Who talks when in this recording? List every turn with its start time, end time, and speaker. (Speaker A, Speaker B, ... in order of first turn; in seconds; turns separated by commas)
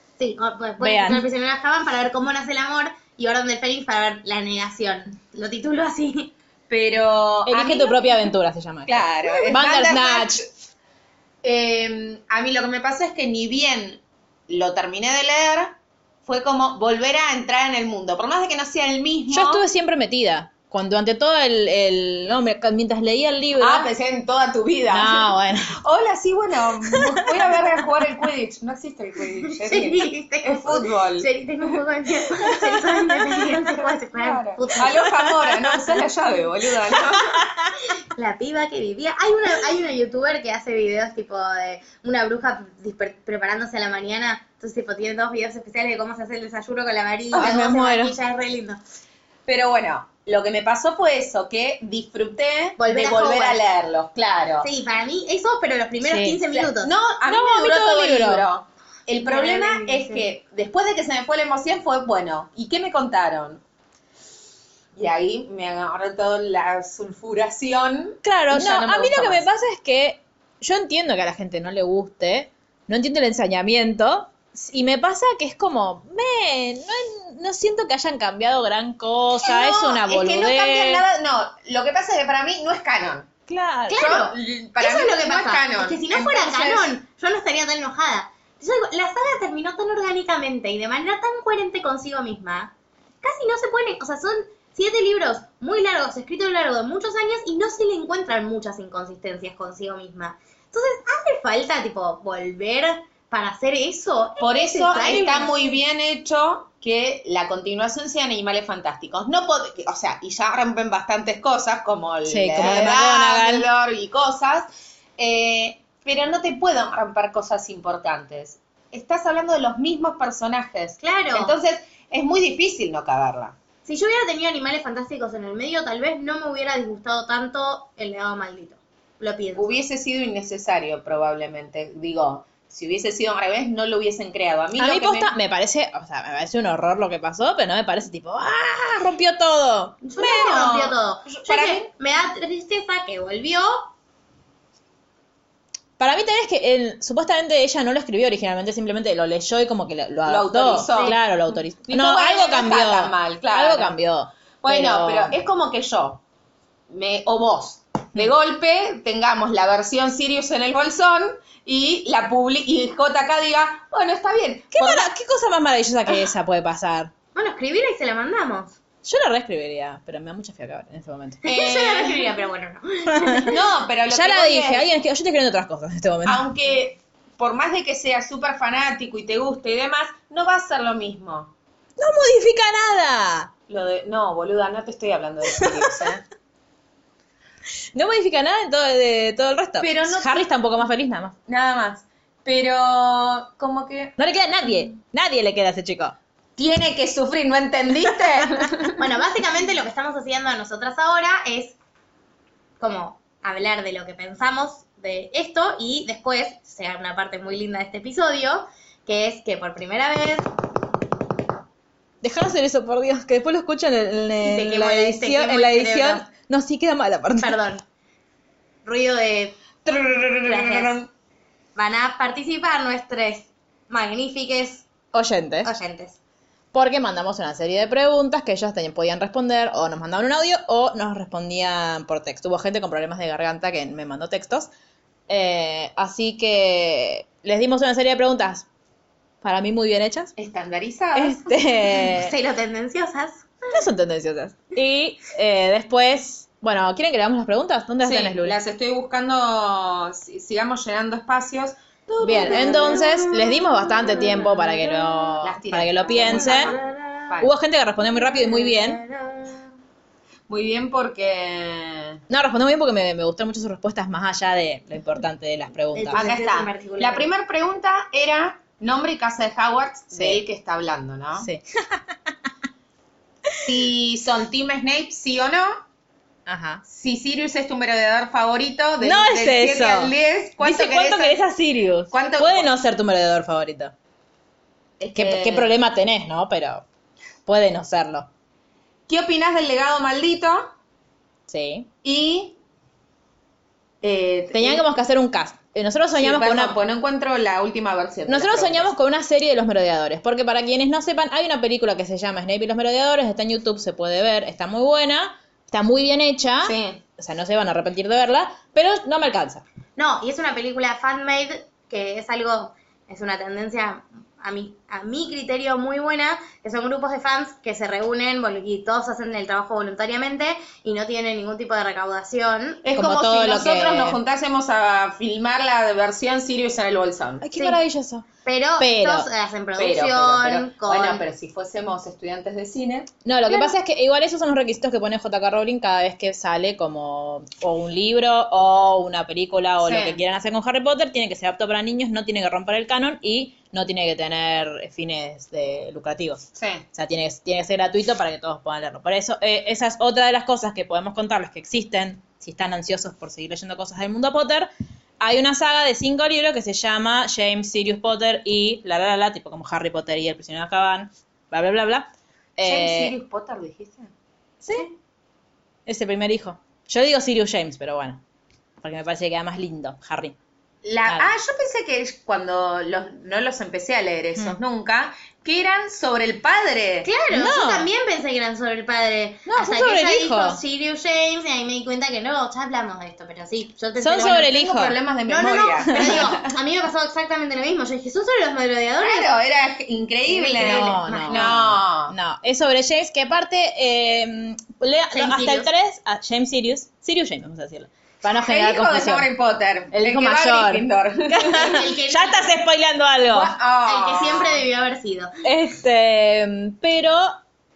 Speaker A: 0.2-6.3, Speaker B: 0.8-1.2, Speaker C: 6.7-8.0, Speaker B: 7.5-10.4, Speaker C: 8.8-10.4, Speaker C: 11.4-19.6, Speaker B: 19.3-23.9, Speaker C: 23.6-31.3, Speaker B: 24.9-25.8, Speaker A: 29.6-34.9, Speaker C: 33.6-37.4, Speaker B: 34.9-35.8, Speaker A: 38.1-48.8, Speaker C: 47.3-47.7, Speaker B: 47.4-48.1, Speaker C: 49.5-54.7, Speaker A: 52.8-53.6, Speaker A: 54.6-56.9, Speaker B: 56.0-56.4, Speaker C: 56.5-63.6, Speaker B: 57.2-58.5, Speaker A: 59.2-60.2, Speaker C: 65.0-69.4, Speaker B: 68.2-81.0, Speaker C: 79.4-83.3, Speaker B: 83.5-84.1, Speaker A: 83.9-105.5, Speaker C: 83.9-86.9, Speaker C: 104.4-123.5, Speaker B: 112.2-113.7, Speaker A: 121.0-121.5, Speaker A: 123.8-129.7, Speaker C: 129.6-135.3, Speaker B: 134.8-140.1, Speaker A: 140.0-143.9, Speaker C: 140.2-141.9, Speaker B: 146.0-155.3, Speaker C: 150.2-151.2, Speaker C: 151.8-153.9, Speaker C: 154.6-156.2, Speaker C: 156.9-165.1, Speaker B: 164.7-167.1, Speaker A: 167.3-168.8, Speaker B: 169.0-171.4, Speaker A: 171.4-173.5, Speaker C: 171.4-172.3, Speaker B: 173.1-173.4, Speaker C: 173.4-174.9, Speaker B: 174.1-176.4, Speaker C: 176.2-181.5, Speaker B: 182.0-183.5, Speaker C: 183.7-186.2, Speaker B: 185.5-185.9, Speaker B: 187.9-191.3, Speaker C: 189.8-190.5, Speaker C: 191.5-194.1, Speaker B: 194.2-196.2, Speaker C: 196.6-198.9, Speaker A: 199.0-201.8, Speaker A: 202.8-210.5, Speaker B: 212.2-217.6, Speaker A: 214.4-216.2, Speaker A: 217.4-217.8, Speaker A: 218.8-219.6, Speaker C: 219.9-221.0, Speaker A: 220.4-220.9, Speaker B: 220.5-220.8, Speaker A: 221.8-224.9, Speaker B: 225.1-225.7, Speaker A: 225.6-226.2, Speaker B: 226.7-234.7, Speaker B: 235.3-238.7, Speaker B: 239.4-240.3, Speaker C: 240.4-242.1, Speaker B: 241.1-242.3, Speaker A: 242.2-243.5, Speaker B: 243.7-248.6, Speaker C: 248.0-254.4, Speaker B: 252.2-256.8, Speaker C: 255.4-257.5, Speaker A: 256.1-257.3, Speaker B: 257.4-259.0, Speaker A: 258.2-259.6, Speaker C: 260.5-262.2, Speaker B: 262.3-266.3, Speaker A: 265.9-267.3, Speaker C: 266.1-271.5, Speaker B: 270.1-270.4, Speaker B: 271.4-272.1, Speaker C: 273.6-275.8, Speaker B: 276.5-276.8, Speaker C: 276.9-281.4, Speaker B: 279.0-283.9, Speaker C: 282.1-282.7, Speaker C: 285.0-285.7, Speaker B: 285.1-286.8, Speaker B: 287.4-288.3, Speaker C: 289.1-290.7, Speaker B: 291.5-291.9, Speaker C: 292.0-292.6, Speaker C: 294.0-294.9, Speaker B: 294.5-296.8, Speaker C: 296.1-298.9, Speaker B: 298.3-309.6, Speaker C: 306.6-307.0, Speaker A: 309.9-322.8, Speaker C: 322.8-327.5, Speaker B: 322.9-324.2, Speaker B: 327.4-328.3, Speaker A: 328.4-331.2, Speaker B: 328.8-329.3, Speaker C: 329.8-333.1, Speaker B: 333.2-363.1, Speaker C: 339.8-340.2, Speaker C: 346.5-346.8, Speaker C: 362.6-364.1, Speaker B: 364.6-364.9, Speaker B: 365.9-368.2, Speaker B: 368.8-370.4, Speaker C: 370.8-377.1, Speaker A: 377.0-384.5, Speaker B: 377.3-377.9, Speaker B: 379.4-380.6, Speaker B: 384.0-385.0, Speaker C: 384.3-386.4, Speaker A: 385.3-389.3, Speaker B: 385.9-386.2, Speaker C: 389.0-392.1, Speaker A: 390.3-391.5, Speaker B: 390.6-399.3, Speaker A: 395.1-395.7, Speaker C: 398.4-401.7, Speaker B: 399.9-403.5, Speaker A: 401.5-402.5, Speaker C: 403.3-404.6, Speaker A: 403.9-405.3, Speaker B: 405.4-407.4